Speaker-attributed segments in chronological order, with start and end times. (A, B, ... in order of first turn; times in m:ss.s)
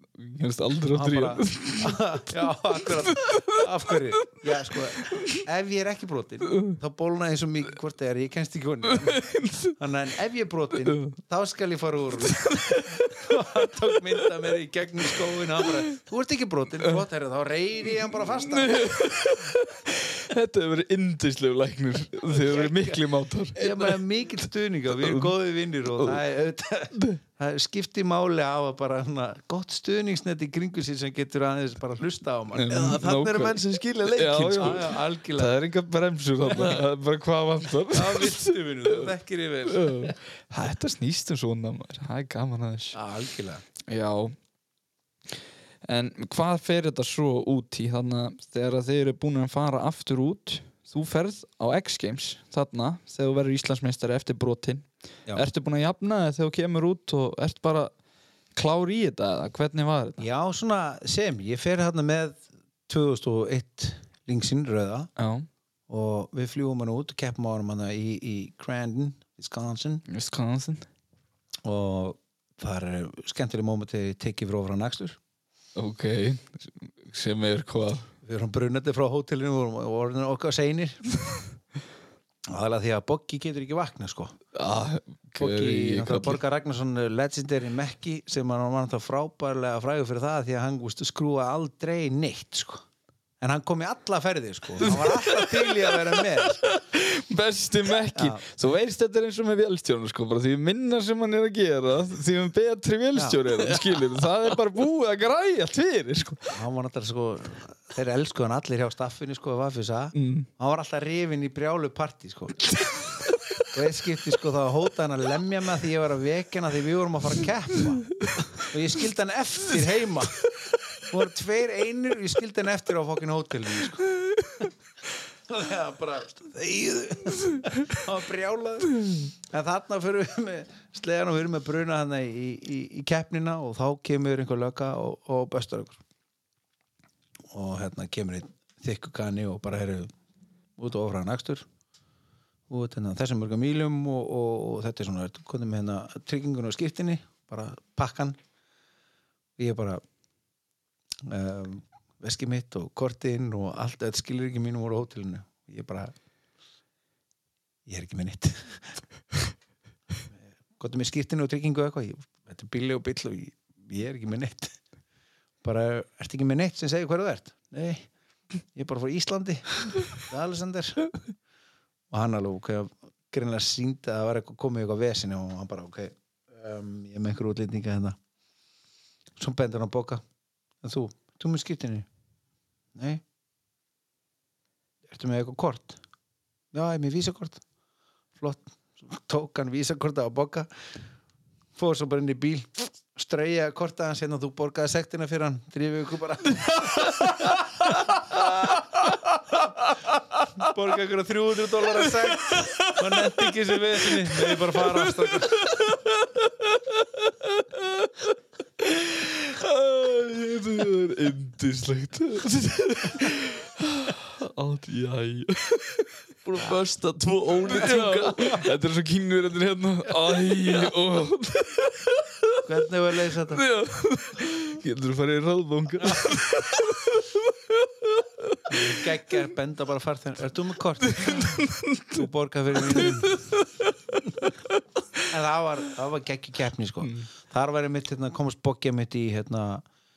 0:00.1-0:03.4 A
0:00.9-0:18.8 B
0:04.4-0:05.4 A
0:08.9-0:09.7 A
0:10.8-0:11.1 A
0:12.2-0:13.3 A
0:18.4-0:24.0 A
0:22.3-0:23.0 B
0:23.5-0:33.0 B
0:25.0-0:25.3 A
0:32.5-0:39.1 A
0:32.7-0:34.9 C
0:34.6-0:35.5 B
0:37.9-0:40.1 B
0:39.7-0:43.0 A
0:42.9-0:43.6 B
0:43.8-0:44.4 A
0:45.8-0:57.9 A
0:58.5-1:00.2 A
1:00.2-1:05.1 B
1:05.2-1:05.5 A
1:05.9-1:10.0 B
1:10.1-1:10.9 A
1:11.6-1:15.2 B
1:15.7-1:18.1 A
1:18.2-1:21.1 B
1:22.5-1:24.4 B
1:24.5-1:26.4 A
1:25.4-1:32.8 B
1:33.4-1:36.6 B
1:34.8-1:46.5 A
1:38.1-1:38.4 B
1:43.1-1:43.4 B
1:46.5-1:52.7 B
1:50.1-1:50.5 A
1:52.8-1:53.3 A
1:53.7-2:04.0 B
2:04.2-2:04.7 A
2:05.5-2:16.0 B
2:17.5-2:20.1 B
2:20.8-2:21.6 B
2:22.7-2:28.4 B
2:29.6-2:30.0 B
2:31.2-2:36.1 B
2:37.9-2:39.0 B
2:40.8-2:44.8 B
2:45.6-2:48.1 B
2:48.7-2:51.1 B
2:52.1-2:58.2 B
2:59.4-3:00.2 B
3:00.8-3:02.1 B
3:02.9-3:03.2 B
3:05.1-3:06.0 B
3:06.7-3:07.6 B
3:08.4-3:10.8 B
3:11.8-3:17.6 B
3:16.9-3:17.6 A
3:18.3-3:20.4 A
3:18.4-3:18.7 B
3:20.6-3:25.7 B
3:22.0-3:36.2 A
3:36.4-3:38.6 C
3:37.7-3:42.5 A
3:42.6-3:43.6 B
3:43.5-3:49.0 A
3:48.7-3:53.4 B
3:51.1-3:54.8 A
3:55.3-3:59.8 B
3:57.0-3:57.3 A